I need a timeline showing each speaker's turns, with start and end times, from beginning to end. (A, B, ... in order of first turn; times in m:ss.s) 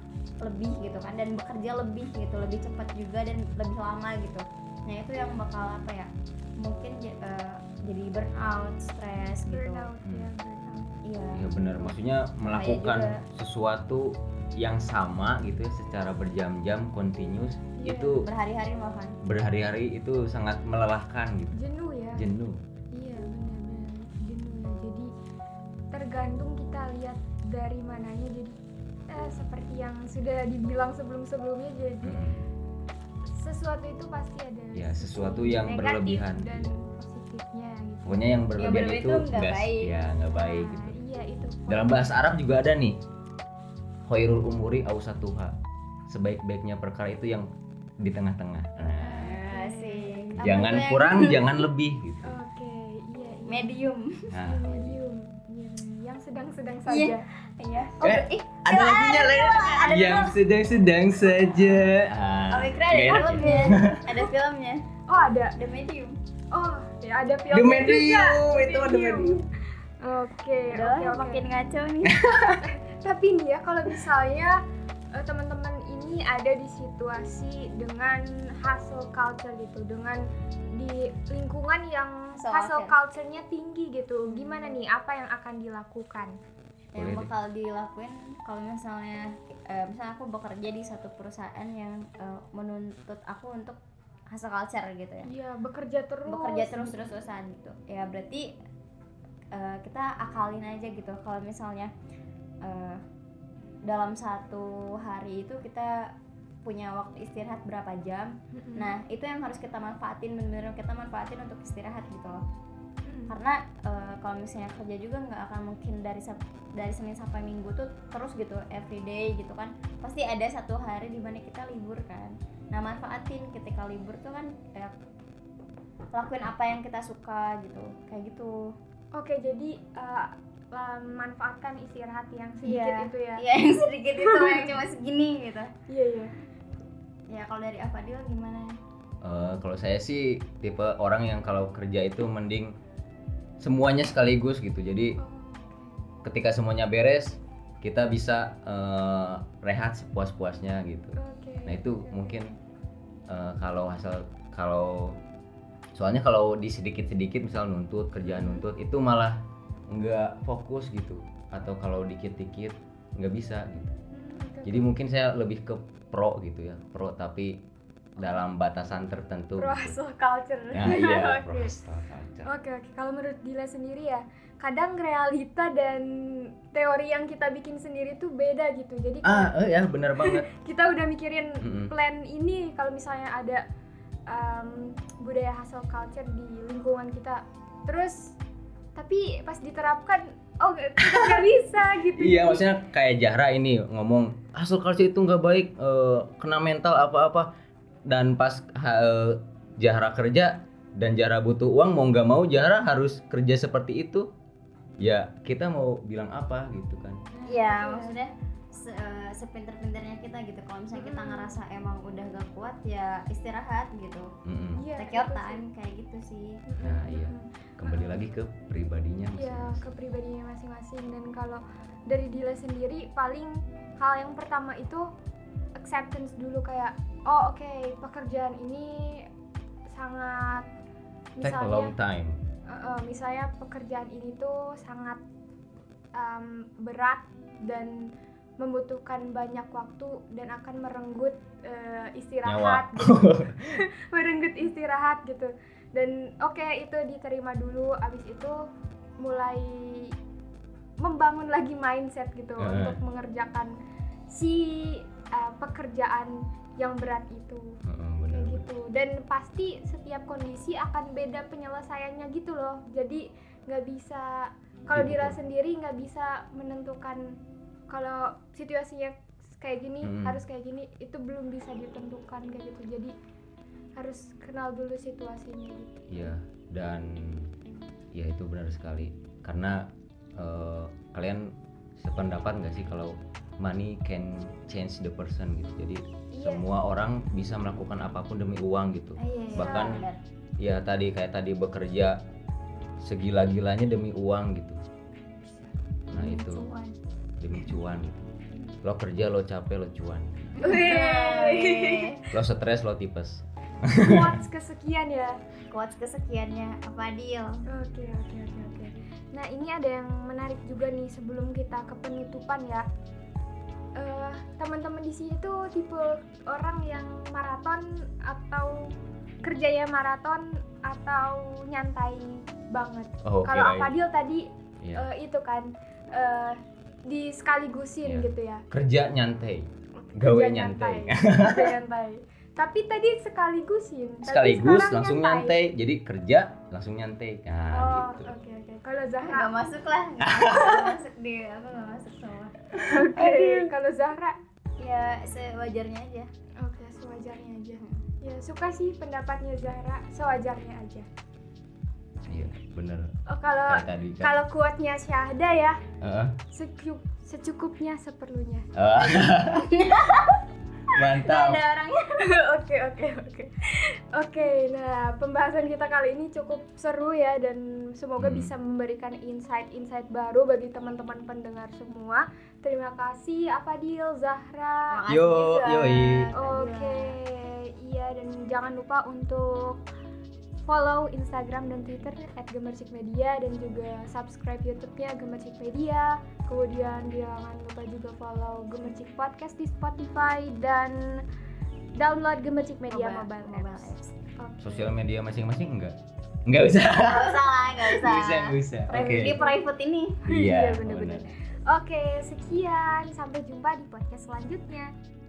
0:00.4-0:09.9 A
0:09.2-0:10.9 B
0:11.0-0:13.2 A
0:11.3-0:18.2 C
0:17.8-0:18.2 B
0:18.2-0:19.2 A
0:19.2-0:21.6 C
0:21.6-0:22.2 B
0:22.1-0:22.6 C
0:22.9-0:25.1 B
0:25.9-0:28.6 B
0:29.1-0:32.2 B
0:32.0-0:32.4 C
0:33.3-0:38.6 B
0:34.7-0:36.7 C
0:38.0-0:41.0 C
0:38.6-0:39.9 A
0:40.3-0:42.2 B
0:41.7-0:43.0 C
0:44.1-0:45.6 C
0:46.1-0:47.5 C
0:48.0-0:49.4 C
0:49.0-0:51.6 A
0:49.1-0:50.9 B
0:50.4-0:52.4 C
0:52.2-0:53.8 B
0:53.5-0:54.4 A
0:54.3-0:54.7 C
0:54.4-0:57.2 B
0:56.9-1:00.4 A
0:58.0-1:04.0 C
1:02.5-1:04.8 A
1:03.2-1:03.8 B
1:05.1-1:05.6 B
1:05.6-1:06.2 A
1:06.5-1:09.4 B
1:07.5-1:09.4 C
1:10.0-1:11.4 B
1:10.7-1:12.2 A
1:12.0-1:12.6 C
1:12.6-1:14.6 B
1:15.1-1:20.2 B
1:20.7-1:26.4 B
1:22.4-1:22.9 A
1:24.2-1:24.8 A
1:26.9-1:33.8 A
1:27.0-1:27.3 C
1:34.3-1:35.3 A
1:35.2-1:37.1 B
1:36.3-1:38.5 A
1:39.5-1:41.9 A
1:42.6-1:43.0 A
1:43.8-1:46.1 A
1:46.6-1:52.4 A
1:48.6-1:48.9 B
1:53.1-1:53.3 B
1:53.3-2:04.9 A
2:06.1-2:08.7 A
2:09.1-2:13.4 B
2:12.6-2:15.7 A
2:14.2-2:14.7 B
2:15.9-2:16.3 B
2:17.3-2:18.8 A
2:19.2-2:22.7 C
2:23.6-2:25.2 C
2:25.2-2:26.0 B
2:26.2-2:32.5 C
2:31.2-2:32.4 B
2:33.3-2:35.2 C
2:35.9-2:43.9 C
2:38.2-2:38.6 B
2:44.1-2:44.8 B
2:44.6-2:47.6 C
2:48.2-2:50.0 C
2:49.6-2:51.7 B
2:50.7-2:52.5 C
2:52.4-2:59.5 B
2:59.2-3:00.4 C
3:00.2-3:03.6 B
3:01.6-3:01.9 C
3:04.3-3:08.4 B
3:09.0-3:12.7 B
3:12.1-3:17.5 C
3:18.1-3:24.3 C
3:25.0-3:27.2 C
3:27.3-3:28.2 B
3:27.4-3:34.3 A
3:30.9-3:31.6 B
3:34.4-3:34.9 C
3:34.8-3:35.6 B
3:35.0-3:36.6 A
3:36.7-3:38.2 B
3:36.8-3:39.8 C
3:39.4-3:45.1 B
3:45.8-3:49.3 B
3:49.9-3:50.7 B
3:51.4-3:51.9 B
3:51.4-3:52.4 C
3:52.7-3:55.2 B
3:56.1-4:08.6 B
4:02.4-4:03.6 C
4:09.2-4:10.1 B
4:11.0-4:13.7 B
4:12.6-4:13.0 C
4:14.3-4:17.8 B
4:17.8-4:18.6 C
4:18.3-4:27.4 B
4:24.9-4:25.4 C
4:27.9-4:33.1 B
4:30.0-4:30.4 C
4:34.0-4:36.3 B
4:36.1-4:37.5 C
4:38.1-4:50.0 C
4:46.3-4:46.6 B
4:49.2-4:50.2 A
4:49.4-4:50.0 B
4:50.6-4:52.2 C
4:53.0-4:54.8 C
4:55.5-4:56.9 B
4:56.1-4:56.6 C
4:57.4-4:58.3 C
4:58.8-5:00.5 C
5:00.6-5:02.2 A
5:00.6-5:02.3 B
5:02.3-5:04.4 C
5:03.9-5:05.4 B
5:05.7-5:07.6 A
5:07.7-5:12.8 B
5:14.0-5:28.6 B
5:23.2-5:23.9 C
5:24.8-5:25.1 C
5:28.0-5:31.8 C
5:30.0-5:35.6 B
5:34.2-5:38.3 C
5:37.7-5:39.5 B
5:39.2-5:43.7 A
5:40.2-5:40.9 C
5:42.8-5:44.4 B
5:44.8-5:46.3 A
5:46.6-5:51.1 B
5:52.3-5:53.1 C
5:53.3-5:55.8 B
5:53.6-5:54.4 C
5:56.0-5:56.4 C
5:56.5-5:58.7 B
5:58.7-5:59.9 C
5:59.6-6:00.4 A
6:00.9-6:01.6 C
6:01.0-6:02.2 A
6:02.1-6:15.0 B
6:08.2-6:08.5 C
6:14.9-6:17.2 A
6:15.1-6:16.3 C
6:16.4-6:19.8 B
6:20.7-6:31.2 B
6:32.0-6:34.9 B
6:32.9-6:34.1 A
6:34.6-6:39.4 C
6:37.1-6:40.2 A
6:38.9-6:39.6 B
6:40.2-6:44.9 B
6:40.3-6:41.3 C